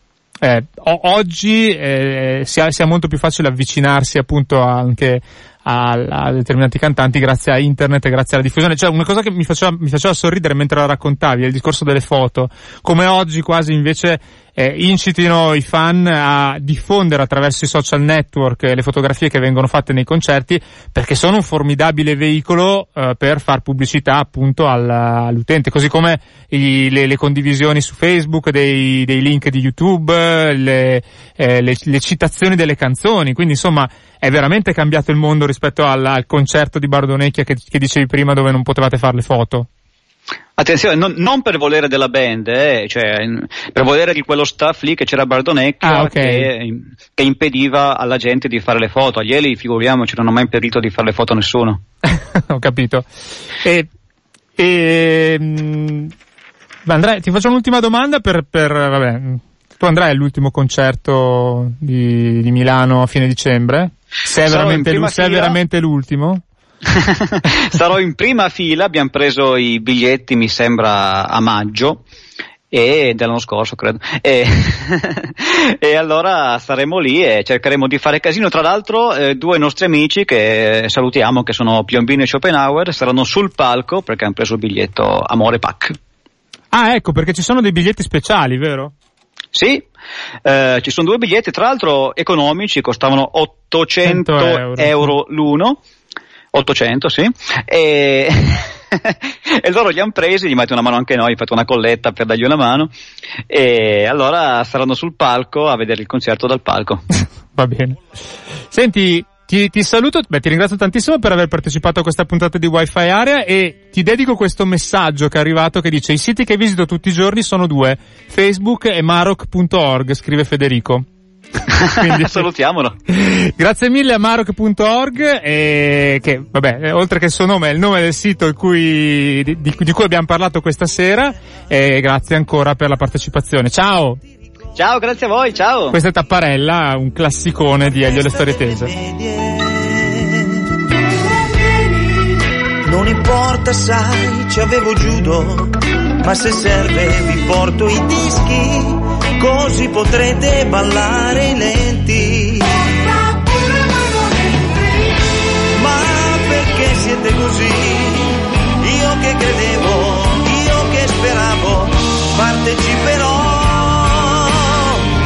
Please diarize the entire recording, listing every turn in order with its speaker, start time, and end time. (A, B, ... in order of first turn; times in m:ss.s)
0:00.4-0:39.7 A
0:40.6-0:51.8 B
0:45.8-0:46.5 A
0:52.0-0:53.1 A
0:53.6-0:53.9 A
0:54.6-0:56.1 A
0:56.8-1:06.4 A
1:04.4-1:05.6 B
1:06.9-1:12.0 B
1:12.7-1:26.0 B
1:26.7-1:28.9 A
1:29.5-1:29.9 B
1:30.4-1:35.8 B
1:34.0-1:35.2 A
1:36.5-1:42.9 B
1:43.5-1:47.0 B
1:47.6-1:48.0 A
1:48.7-2:01.1 A
2:01.7-2:02.9 B
2:02.0-2:02.5 A
2:03.1-2:14.2 A
2:14.8-2:16.0 B
2:15.9-2:18.9 A
2:18.2-2:20.8 C
2:22.8-2:33.0 C
2:35.7-2:45.1 C